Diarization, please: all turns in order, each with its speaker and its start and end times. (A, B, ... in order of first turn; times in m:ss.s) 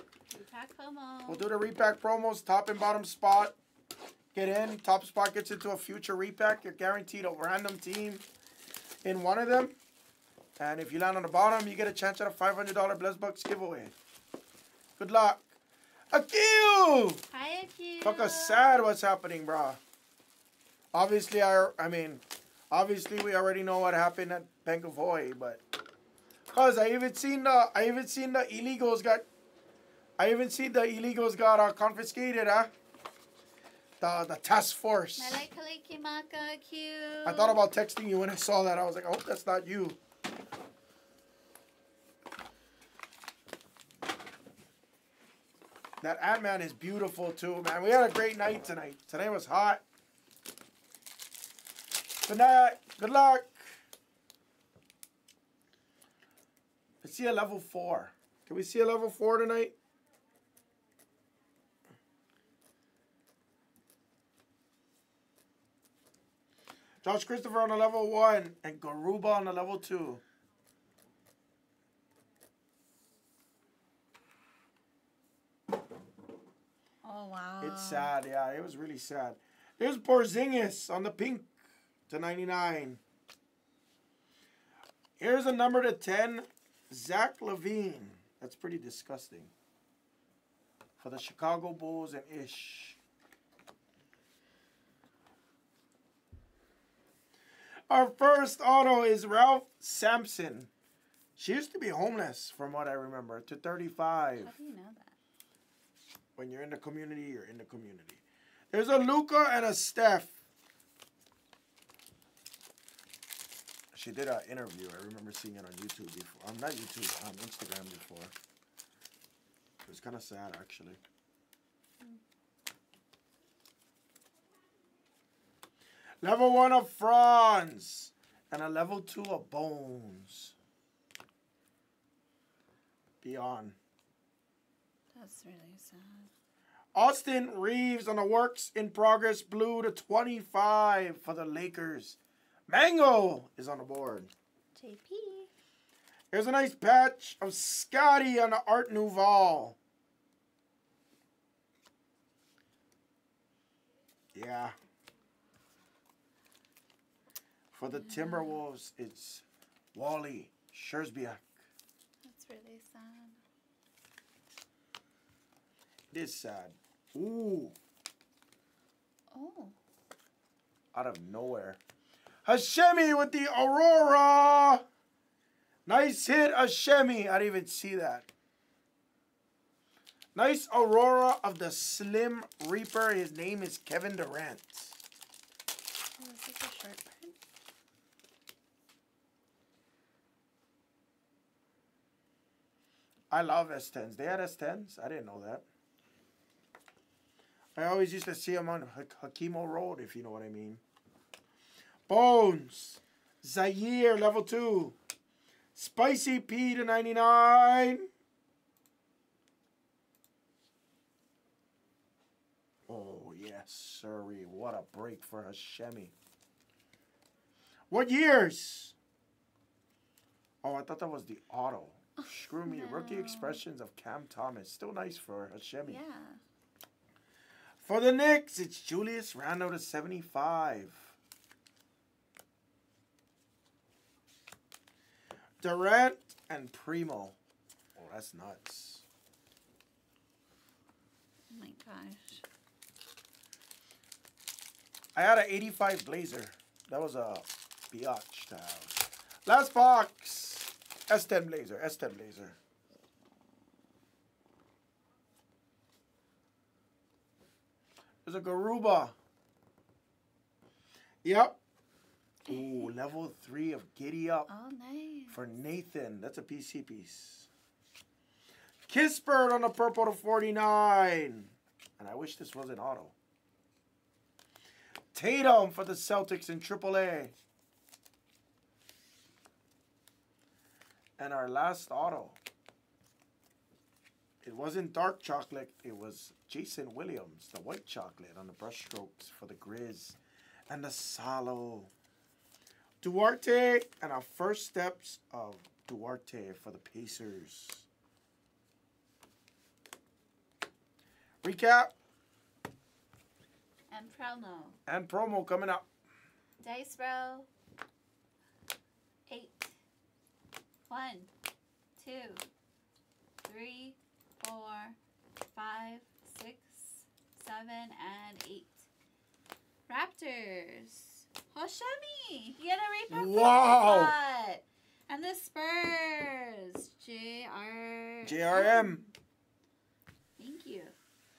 0:00.3-0:01.5 A
0:01.3-0:03.6 B
0:04.3-0:08.2 B
0:09.0-0:09.7 B
0:10.6-0:13.9 B
0:15.0-0:15.5 B
0:16.1-0:17.2 B
0:17.3-0:18.9 A
0:18.0-0:19.8 B
0:20.9-0:25.6 B
0:26.5-0:29.2 B
0:30.2-0:32.7 B
0:34.0-0:35.4 B
0:35.1-0:37.6 A
0:37.2-0:40.0 B
0:46.0-0:49.8 B
0:52.2-0:53.7 B
0:57.0-0:59.7 B
1:07.0-1:10.2 B
1:17.0-1:18.1 A
1:17.6-1:21.5 B
1:22.1-1:23.0 B
1:25.2-1:29.5 B
1:31.0-1:33.0 B
1:37.9-1:40.7 B
1:41.4-1:44.6 B
1:44.4-1:45.2 A
1:46.4-1:48.2 B
1:48.7-1:50.3 B
1:53.9-1:58.3 B
1:59.8-2:01.0 B
2:06.2-2:10.5 B
2:13.2-2:13.8 B
2:15.1-2:16.3 A
2:16.9-2:22.2 B
2:22.7-2:24.3 B
2:24.8-2:25.5 A
2:26.3-2:29.8 B
2:34.3-2:34.7 B
2:37.7-2:41.6 B
2:37.9-2:38.6 A
2:42.2-2:43.4 A
2:46.1-2:47.8 B
2:49.3-2:49.7 A
2:50.9-2:51.8 B
2:52.4-2:54.8 B
2:55.8-2:58.3 B
3:00.3-3:05.0 B
3:06.2-3:07.4 A
3:13.3-3:15.6 B
3:17.8-3:20.8 B
3:22.1-3:25.0 B
3:25.7-3:28.0 B
3:32.9-3:36.1 B
3:37.9-3:38.9 B
3:40.6-3:46.0 B
3:42.2-3:43.6 A
3:45.8-3:46.4 A
3:47.8-3:51.1 B
3:55.6-3:57.4 B
3:57.9-3:59.0 B
4:01.5-4:02.4 A
4:05.1-4:12.6 B
4:18.2-4:19.1 B
4:21.2-4:21.6 B
4:22.5-4:24.5 B
4:22.5-4:22.9 A
4:24.5-4:25.4 A
4:25.3-4:27.5 B
4:28.9-4:33.1 B
4:35.1-4:37.4 B
4:41.2-4:42.4 B
4:44.4-4:50.2 B
4:50.7-4:51.9 B
4:53.0-4:57.8 B
5:01.4-5:01.9 B
5:03.9-5:04.8 A
5:04.9-5:05.8 B
5:06.6-5:07.5 A
5:09.3-5:09.7 A
5:10.9-5:11.3 A
5:12.0-5:12.5 A
5:13.4-5:15.0 A
5:15.5-5:18.8 A
5:19.9-5:29.1 A
5:23.1-5:24.1 B
5:28.2-5:29.0 B
5:30.4-5:30.9 A